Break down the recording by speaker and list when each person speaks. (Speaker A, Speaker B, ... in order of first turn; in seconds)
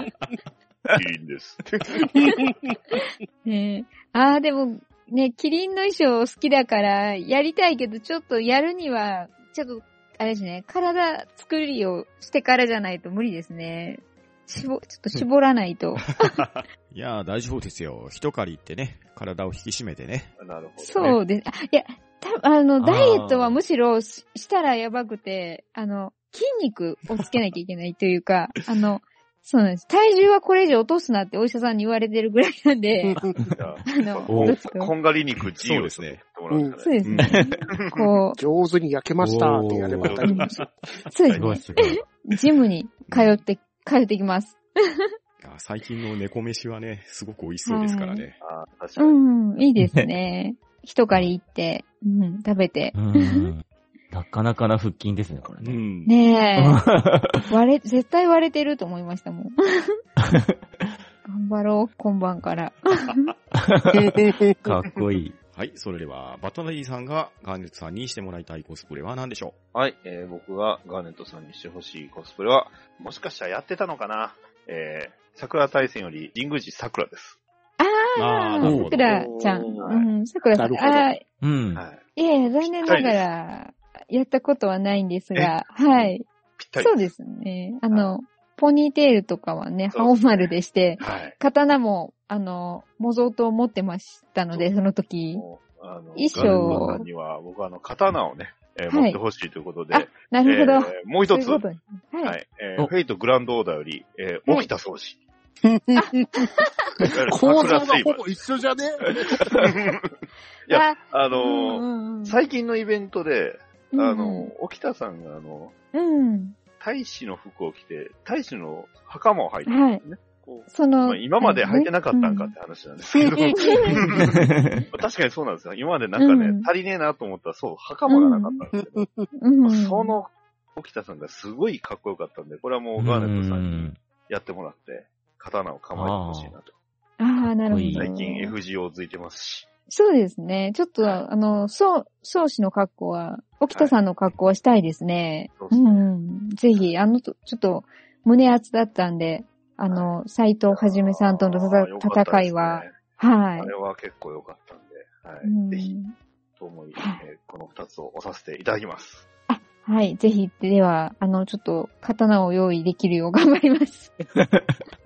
Speaker A: 0.9-2.0, 20.4-21.1, 33.4-36.9, 37.7-38.0, 40.0-40.5, 48.4-49.6, 69.7-77.4, 79.7-80.1, 81.8-82.1, 82.6-83.3, 85.3-87.1, 89.9-91.4, 95.3-101.6, 102.2-105.2, 107.0-108.3, 109.4-110.1, 110.7-115.7, 116.8-120.2, 121.0-129.1, 129.6-136.7, 137.9-139.7, 145.6-146.1, 149.9-150.2, 150.7-153.0, 153.6-155.9, 156.6-159.2
Speaker B: 2.2-16.4, 20.8-33.2, 33.9-34.9, 36.8-38.4, 41.1-45.0, 47.6-48.3, 49.0-53.5, 56.0-56.9, 57.4-60.0, 61.2-63.3, 77.8-81.2, 82.2-86.2, 86.8-95.4, 96.1-97.0, 98.9-99.2, 99.9-102.4, 105.9-107.1, 110.7-112.4, 113.9-114.5, 115.9-116.5, 119.7-120.0, 120.7-122.5, 123.5-124.8, 126.2-126.7, 128.1-128.6, 129.4-130.2, 137.2-138.6, 139.9-153.7, 155.4-156.1, 156.9-157.2, 159.5-164.1
Speaker C: 16.2-20.3, 35.6-36.2, 37.0-37.3, 41.3-41.8, 43.1-43.4, 45.4-48.4, 55.6-56.1, 65.5-69.5, 78.2-79.2
Speaker D: 22.8-23.6, 34.3-34.6, 37.2-37.6, 39.2-40.2, 41.3-42.0, 49.8-50.1, 52.9-55.8, 56.5-57.4, 60.2-60.5, 63.5-65.3, 81.4-81.8, 96.4-96.9, 124.1-124.8, 133.0-134.0, 135.9-136.6, 137.6-138.1, 164.3-164.8
Speaker E: 33.1-33.4, 36.5-36.8, 38.4-40.7, 64.0-64.5, 78.7-79.8, 80.5-81.1, 105.6-106.5, 107.1-109.8, 123.2-123.5, 128.9-129.3